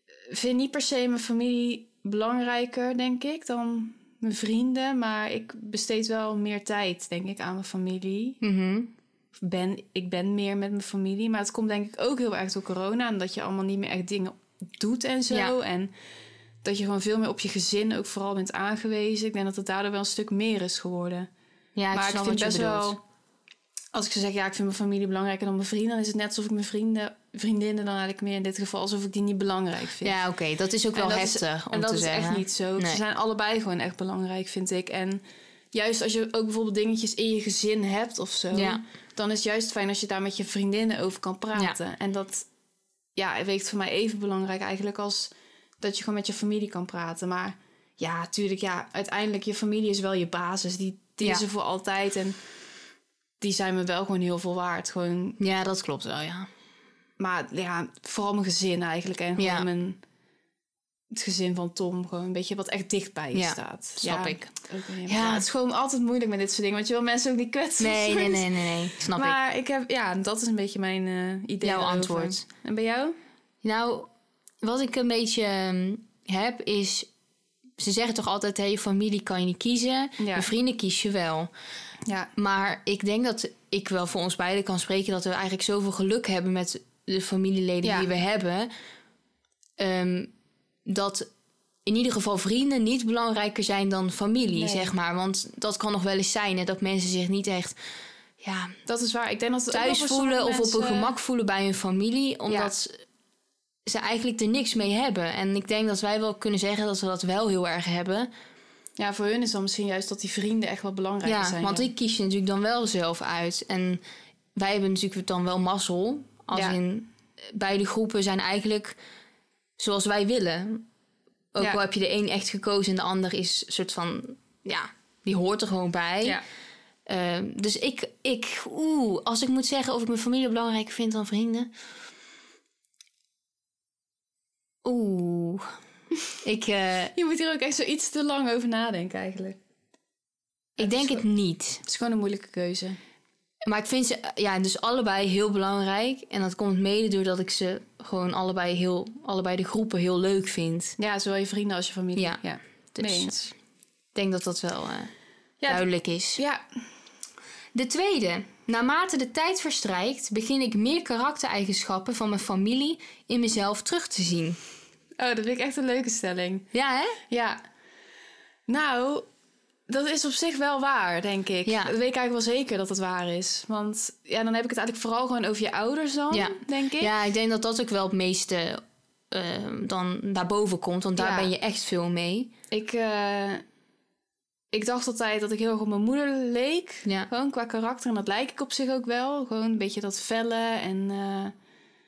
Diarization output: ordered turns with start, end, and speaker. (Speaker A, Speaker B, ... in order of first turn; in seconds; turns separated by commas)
Speaker A: 0.3-8.4, Speaker B: 8.4-8.9, Speaker A: 9.4-15.9, Speaker A: 16.6-21.3, Speaker B: 21.8-22.9, Speaker A: 21.9-23.0, Speaker A: 23.9-30.2, Speaker B: 30.0-33.0, Speaker A: 30.9-35.2, Speaker A: 35.7-42.5, Speaker B: 38.5-38.8, Speaker A: 43.2-52.4, Speaker A: 53.4-55.4, Speaker B: 55.4-56.5, Speaker A: 57.2-60.0, Speaker B: 59.4-59.7, Speaker A: 61.1-68.5, Speaker B: 63.3-64.5, Speaker B: 65.1-65.5, Speaker B: 67.8-69.4, Speaker A: 69.1-73.2, Speaker B: 71.6-72.4, Speaker B: 73.6-74.1, Speaker B: 74.6-77.1, Speaker B: 77.8-81.5, Speaker A: 80.2-80.5, Speaker B: 82.4-88.7, Speaker A: 87.8-88.1, Speaker B: 89.8-90.3, Speaker B: 90.9-91.3, Speaker B: 91.8-97.8, Speaker A: 94.6-94.9, Speaker B: 98.4-98.7, Speaker A: 98.9-101.1, Speaker B: 99.7-103.0, Speaker A: 102.5-102.7, Speaker B: 103.9-108.3, Speaker A: 109.0-111.9, Speaker B: 111.2-114.0, Speaker B: 114.5-119.0, Speaker A: 116.5-116.8, Speaker B: 119.8-120.8, Speaker B: 121.5-126.4, Speaker B: 127.1-131.7, Speaker B: 134.8-135.7, Speaker B: 136.4-137.1, Speaker A: 137.2-139.6, Speaker A: 140.8-141.2, Speaker B: 140.8-141.8, Speaker A: 141.8-143.0, Speaker B: 143.7-151.0, Speaker A: 151.0-153.5, Speaker B: 152.9-153.3, Speaker B: 154.2-155.1, Speaker A: 155.6-155.9, Speaker B: 155.7-156.4, Speaker A: 156.4-156.6, Speaker B: 157.7-164.6, Speaker A: 165.2-166.7, Speaker B: 166.7-167.2, Speaker A: 167.3-167.6, Speaker A: 168.7-169.3, Speaker A: 169.9-177.1, Speaker B: 171.7-171.9, Speaker B: 176.3-182.5, Speaker A: 181.2-181.5, Speaker A: 182.7-183.6, Speaker A: 184.7-191.6